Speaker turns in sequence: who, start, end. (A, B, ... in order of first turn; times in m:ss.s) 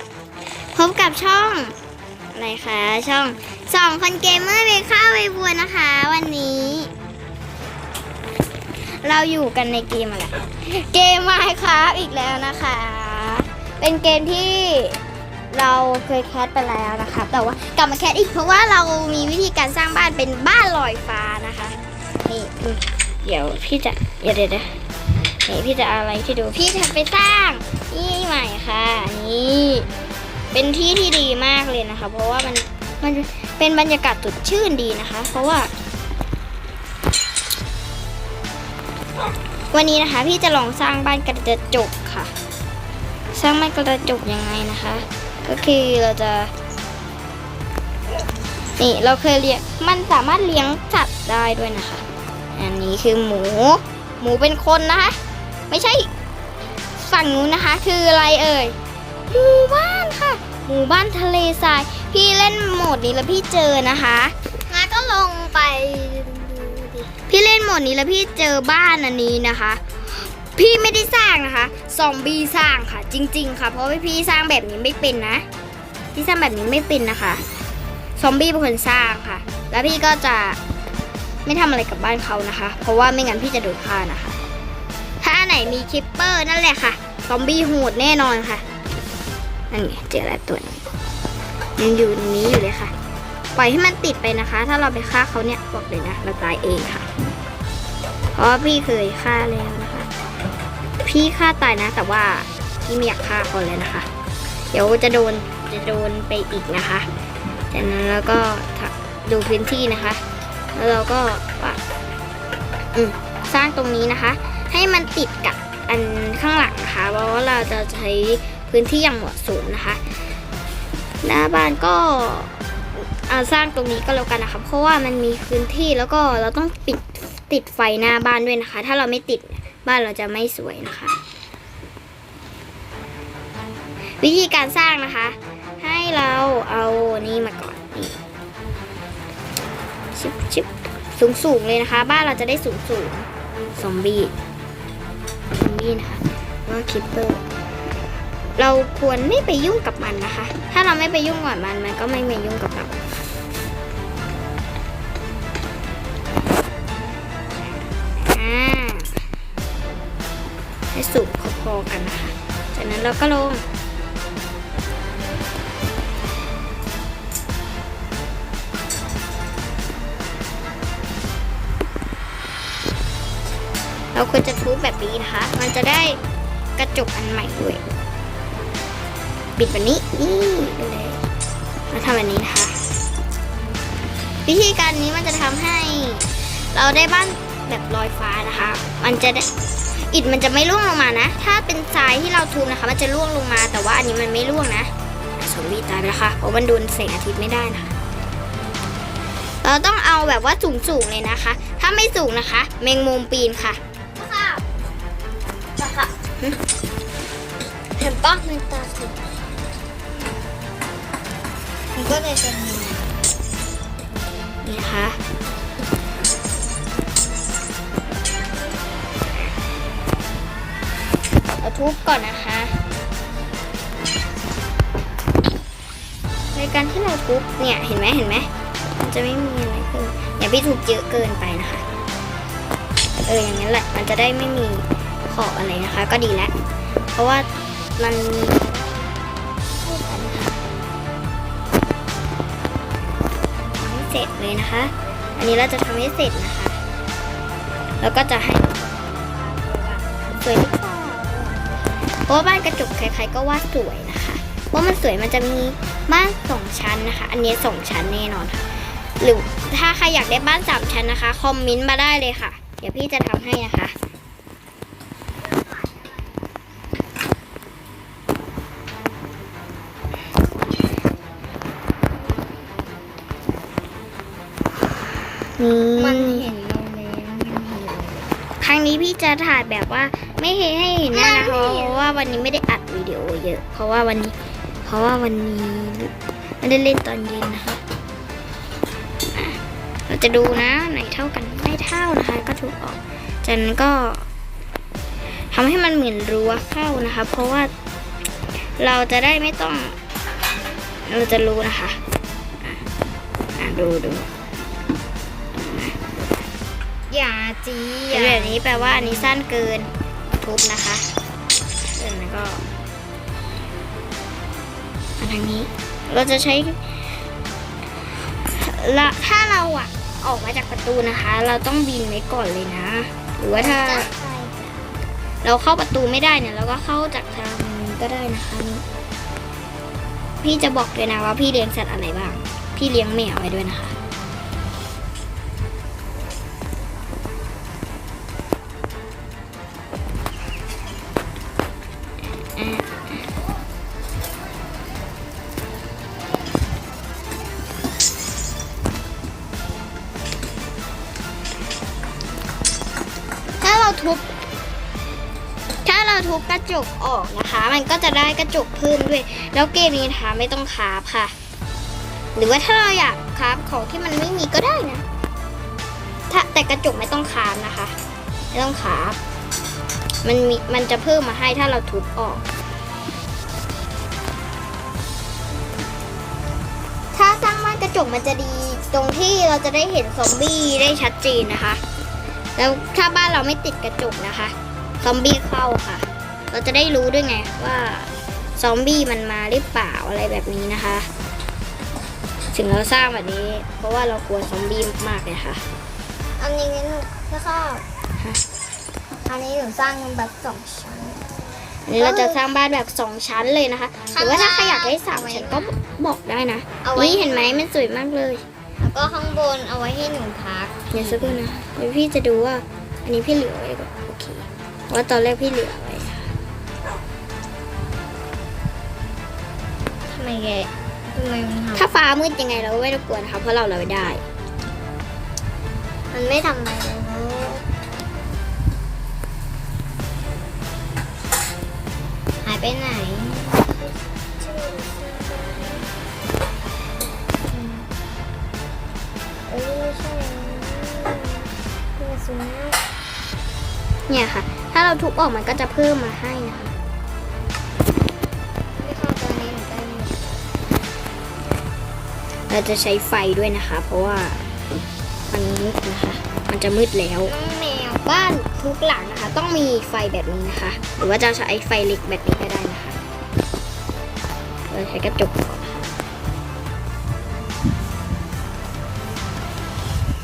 0:00.7-0:01.7 A
0:02.3-0:06.9 A
0:08.9-0:24.8 A
0:25.4-0:29.9 A
0:30.5-0:35.7 A
0:39.7-0:42.3 A
0:43.3-0:46.5 A
0:48.8-0:52.0 A
0:52.5-0:55.2 A
0:55.7-0:56.1 A
0:57.0-0:58.8 A
0:59.3-1:04.3 A
1:04.7-1:07.1 B
1:07.3-1:15.4 A
1:16.1-1:17.4 A
1:18.2-1:20.6 A
1:21.4-1:24.4 A
1:25.2-1:28.6 A
1:29.7-1:30.8 A
1:31.8-1:32.9 A
1:33.6-1:37.0 A
1:38.3-1:40.1 A
1:41.0-1:44.1 A
1:44.7-1:47.0 A
1:47.7-1:50.2 A
1:50.7-1:51.8 A
1:52.9-2:00.0 A
2:01.2-2:11.2 A
2:14.2-2:18.2 A
2:20.1-2:24.3 A
2:25.5-2:27.4 A
2:28.6-2:33.0 A
2:38.2-2:39.1 A
2:40.9-2:43.6 A
2:54.1-2:56.2 A
2:56.8-2:57.8 A
2:59.6-3:01.2 A
3:01.9-3:02.8 A
3:04.4-3:09.5 A
3:10.1-3:17.9 A
3:19.6-3:23.8 A
3:24.2-3:24.6 B
3:25.8-3:26.1 B
3:28.0-3:29.2 B
3:31.9-3:33.2 B
3:34.6-3:35.2 A
3:41.6-3:42.8 A
3:46.5-3:51.8 A
3:53.2-3:56.5 A
3:57.2-3:57.5 A
3:58.0-3:59.1 A
3:59.8-4:00.6 A
4:03.8-4:06.8 A
4:08.0-4:18.6 A
4:19.2-4:23.9 A
4:35.6-4:36.4 A
4:36.0-4:38.3 B
4:38.6-4:47.8 A
4:41.1-4:42.2 B
4:49.3-4:54.2 A
4:55.5-4:57.7 A
4:58.8-5:00.0 A
5:01.0-5:02.0 A
5:03.6-5:04.3 A
5:05.6-5:06.0 A
5:07.1-5:09.3 B
5:08.1-5:11.0 A
5:11.9-5:12.6 A
5:15.2-5:16.9 A
5:18.4-5:24.1 A
5:23.5-5:24.9 B
5:25.4-5:28.8 A
5:30.4-5:34.0 A
5:42.4-5:43.1 A
5:53.6-5:54.3 A
5:55.8-6:01.3 A
6:02.4-6:05.0 A
6:06.3-6:07.9 A
6:08.5-6:09.2 A
6:10.2-6:12.4 A
6:17.1-6:21.8 A
6:22.6-6:31.1 A
6:32.5-6:35.6 A
6:36.4-6:37.8 B
6:39.2-6:41.2 B
6:41.9-6:48.4 A
6:42.0-6:42.4 B
6:44.1-6:45.7 B
6:46.8-6:47.6 B
6:48.8-6:51.4 B
6:50.9-6:56.3 A
7:00.1-7:01.8 B
7:01.8-7:04.2 A
7:06.1-7:07.6 B
7:12.4-7:15.9 B
7:17.5-7:17.9 B
7:19.5-7:22.8 B
7:24.1-7:26.7 A
7:28.8-7:30.4 B
7:32.5-7:34.4 A
7:35.3-7:37.3 A
7:37.2-7:38.0 B
7:38.0-7:43.0 A
7:44.7-7:45.9 A